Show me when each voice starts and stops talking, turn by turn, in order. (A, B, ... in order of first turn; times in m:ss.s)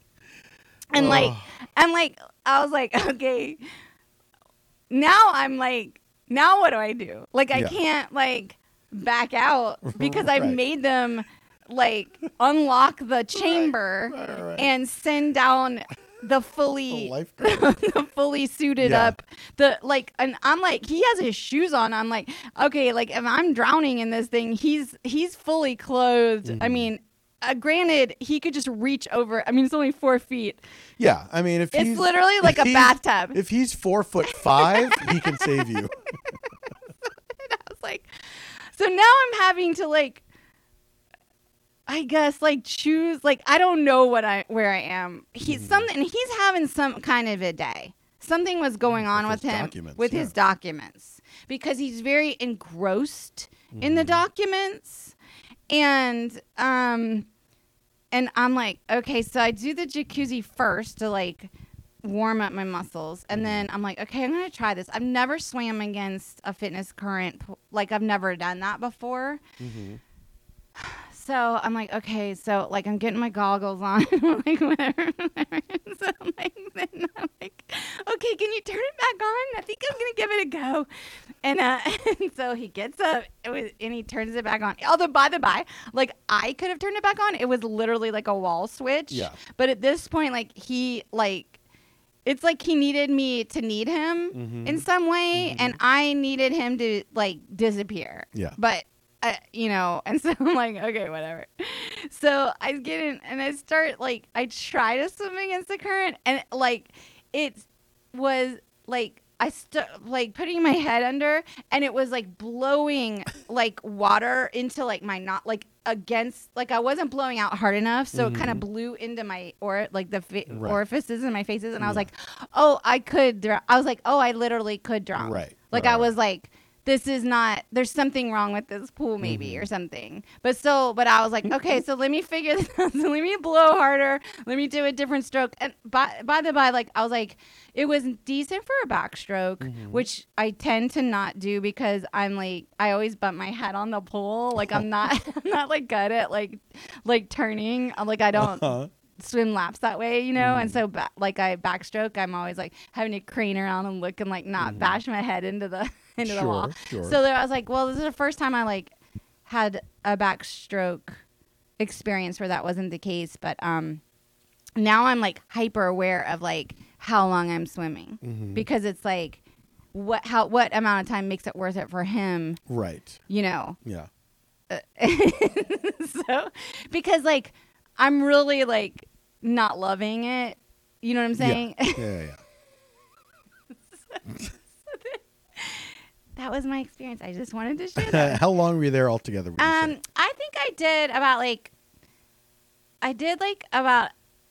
0:00.9-0:03.6 A
0:00.9-0:01.5 B
0:04.9-0:30.6 A
0:07.5-0:07.8 B
0:09.8-0:10.6 B
0:13.4-0:14.7 B
0:16.9-0:17.7 B
0:18.8-0:19.2 B
0:26.4-0:26.9 B
0:31.0-0:36.3 B
0:31.7-0:33.4 A
0:34.2-0:35.8 A
0:37.4-0:40.2 A
0:41.9-0:55.1 A
0:45.5-0:45.9 B
0:48.9-0:50.3 B
0:53.7-0:54.2 B
0:55.7-0:57.3 A
0:58.1-1:01.5 A
1:02.0-1:09.4 A
1:03.3-1:03.6 B
1:09.6-1:10.0 B
1:10.8-1:20.9 A
1:21.4-1:31.6 A
1:29.1-1:29.4 B
1:32.2-2:38.9 A
1:34.3-1:35.8 B
1:58.1-1:58.6 B
2:00.5-2:00.8 B
2:01.8-2:02.1 B
2:05.2-2:06.1 B
2:09.2-2:09.7 B
2:19.6-2:20.0 B
2:28.4-2:28.9 B
2:30.4-2:30.8 B
2:34.6-2:35.0 B
2:36.2-2:37.2 B
2:39.4-2:41.2 A
2:41.8-2:44.0 A
2:44.8-2:49.4 A
2:48.2-2:48.7 B
2:49.9-2:52.6 A
2:52.7-2:53.2 B
2:53.3-2:53.8 A
2:54.7-3:02.1 A
3:01.4-3:02.4 B
3:04.1-3:08.4 A
3:08.0-3:10.0 B
3:09.6-3:11.7 A
3:13.0-3:14.1 A